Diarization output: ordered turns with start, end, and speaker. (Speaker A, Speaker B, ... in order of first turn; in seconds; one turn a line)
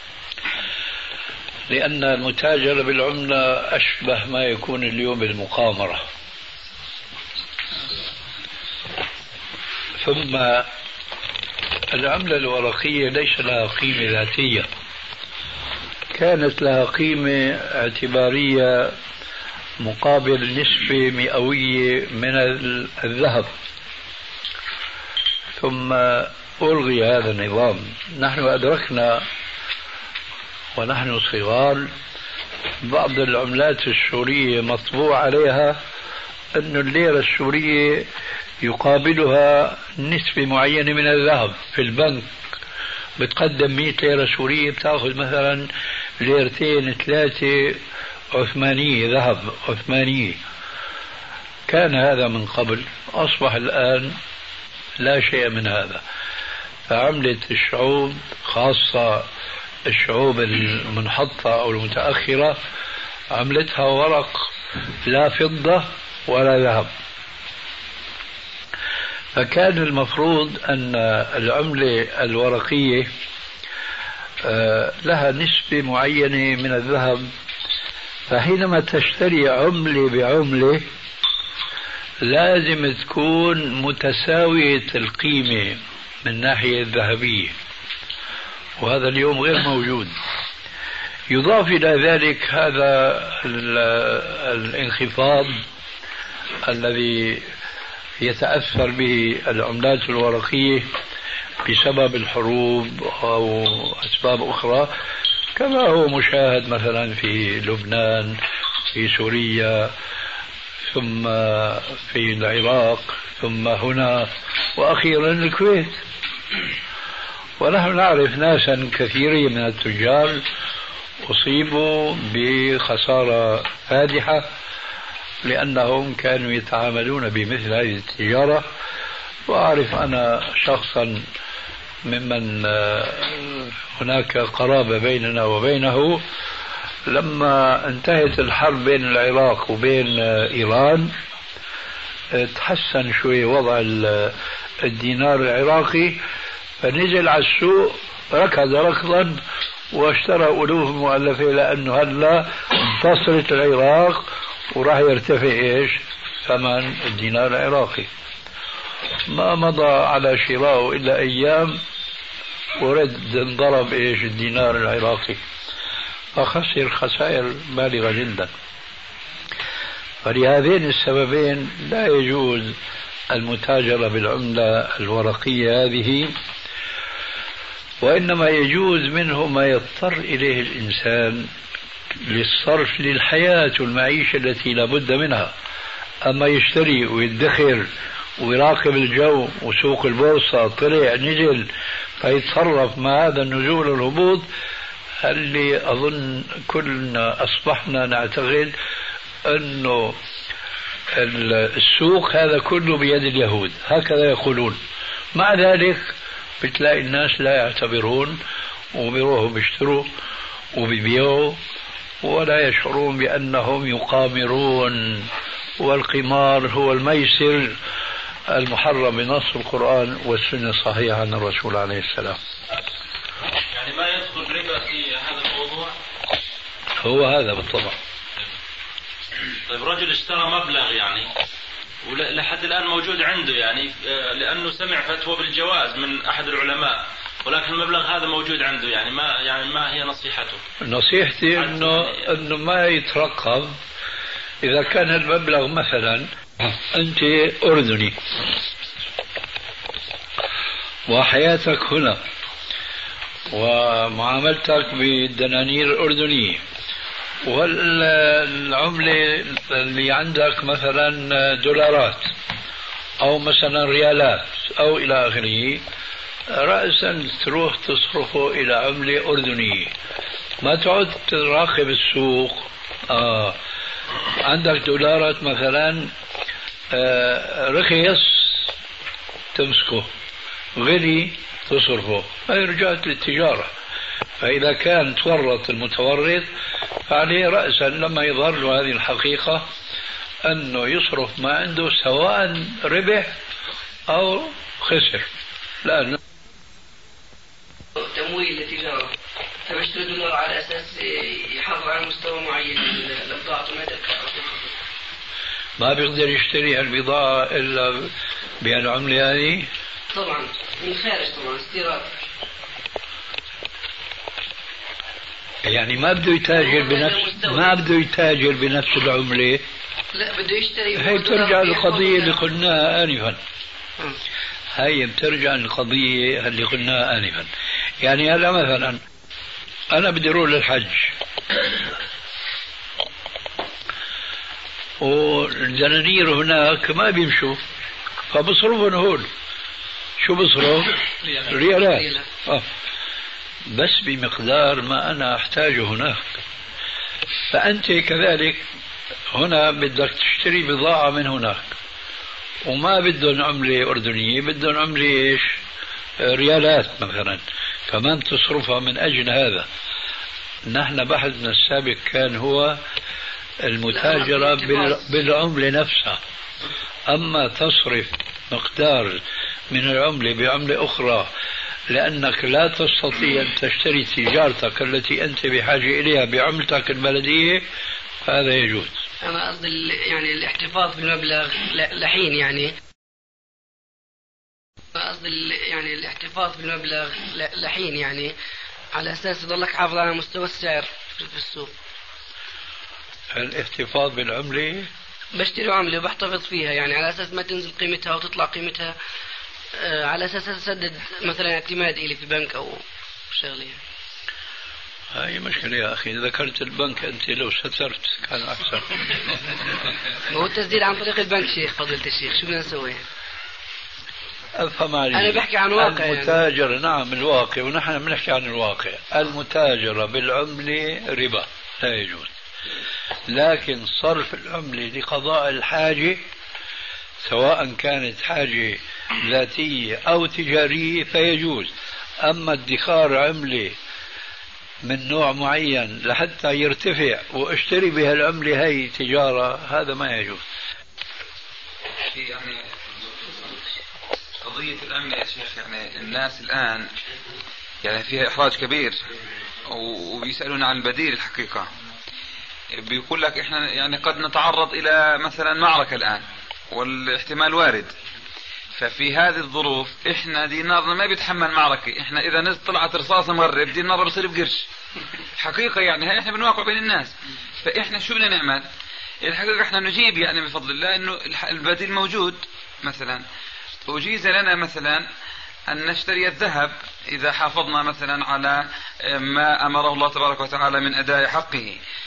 Speaker A: 1.7-6.0
Speaker A: 10.0-10.7
Speaker A: 11.9-14.7
Speaker A: 16.1-18.9
Speaker A: 19.8-23.5
Speaker A: 25.6-29.3
Speaker A: 30.8-31.9
Speaker A: 32.8-35.8
Speaker A: 36.5-38.1
Speaker A: 38.6-42.3
Speaker A: 43.2-47.8
Speaker A: 48.3-50.4
Speaker A: 51.7-54.2
Speaker A: 55.0-56.0
Speaker A: 56.9-59.3
Speaker A: 59.9-62.6
Speaker A: 63.3-64.5
Speaker A: 65.0-66.9
Speaker A: 69.3-73.1
Speaker A: 74.4-77.3
Speaker A: 78.3-80.8
Speaker A: 82.2-87.5
Speaker A: 88.8-90.2
Speaker A: 91.3-95.6
Speaker A: 96.6-97.5
Speaker A: 98.2-100.9
Speaker A: 101.7-104.9
Speaker A: 105.6-108.4
Speaker A: 108.9-109.9
Speaker A: 110.9-116.0
Speaker A: 117.6-120.5
Speaker A: 121.2-124.5
Speaker A: 125.4-128.7
Speaker A: 129.5-131.3
Speaker A: 132.1-136.2
Speaker A: 137.1-141.1
Speaker A: 142.3-146.2
Speaker A: 146.8-149.4
Speaker A: 149.9-158.1
Speaker A: 159.3-161.8
Speaker A: 162.8-165.4
Speaker A: 166.3-168.5
Speaker A: 170.2-172.8
Speaker A: 173.3-176.4
Speaker A: 178.0-181.5
Speaker A: 182.2-185.5
Speaker A: 186.3-194.5
Speaker A: 195.2-198.8
Speaker A: 199.4-200.2
Speaker A: 201.1-204.8
Speaker A: 205.3-208.4
Speaker A: 208.9-210.1
Speaker A: 210.7-211.6
Speaker A: 212.2-217.8
Speaker A: 218.5-222.4
Speaker B: 223.7-225.9
Speaker A: 227.0-228.0
Speaker B: 229.7-231.3
Speaker B: 232.0-240.6
Speaker A: 240.8-243.8
Speaker B: 241.6-242.3
Speaker A: 244.6-248.2
Speaker A: 251.1-252.2
Speaker A: 253.5-256.6
Speaker A: 257.4-262.3
Speaker A: 263.2-265.8
Speaker A: 266.5-269.9
Speaker A: 270.6-273.6
Speaker A: 274.4-276.1
Speaker A: 276.9-278.7
Speaker A: 279.5-280.1
Speaker A: 280.8-283.7
Speaker A: 284.4-286.5
Speaker A: 287.1-289.7
Speaker A: 290.4-293.3
Speaker A: 294.1-295.3
Speaker A: 295.8-296.2
Speaker C: 297.9-299.1
Speaker C: 299.7-304.7
Speaker A: 305.8-309.7
Speaker C: 310.1-312.1
Speaker A: 315.6-319.6
Speaker C: 316.5-317.8
Speaker C: 320.1-322.4
Speaker A: 320.9-323.4
Speaker A: 324.8-327.5
Speaker A: 328.0-329.0
Speaker A: 329.9-331.1
Speaker A: 335.0-337.6
Speaker A: 338.3-339.3
Speaker A: 340.2-342.7
Speaker C: 341.3-342.2
Speaker A: 343.6-346.3
Speaker A: 347.5-348.6
Speaker A: 349.3-351.8
Speaker A: 352.6-355.6
Speaker A: 356.2-359.7
Speaker A: 360.7-362.8
Speaker A: 363.6-366.2
Speaker C: 363.9-365.0
Speaker A: 367.1-371.3
Speaker A: 371.9-377.6
Speaker A: 378.2-379.0
Speaker C: 379.2-382.8
Speaker C: 384.9-388.3
Speaker C: 388.9-391.7
Speaker A: 393.3-394.9
Speaker C: 395.4-398.9
Speaker C: 399.8-403.8
Speaker A: 405.1-409.4
Speaker C: 410.3-413.0
Speaker A: 414.6-422.3
Speaker C: 415.1-416.4
Speaker A: 423.3-426.2
Speaker A: 427.2-431.7
Speaker A: 432.2-433.8
Speaker A: 434.9-440.4
Speaker D: 442.1-442.8
Speaker D: 444.4-446.9
Speaker D: 447.8-449.0
Speaker D: 449.7-451.7
Speaker D: 452.7-457.9
Speaker D: 458.8-464.7
Speaker D: 465.4-468.7
Speaker D: 469.2-473.2
Speaker D: 473.9-475.1
Speaker D: 475.7-481.8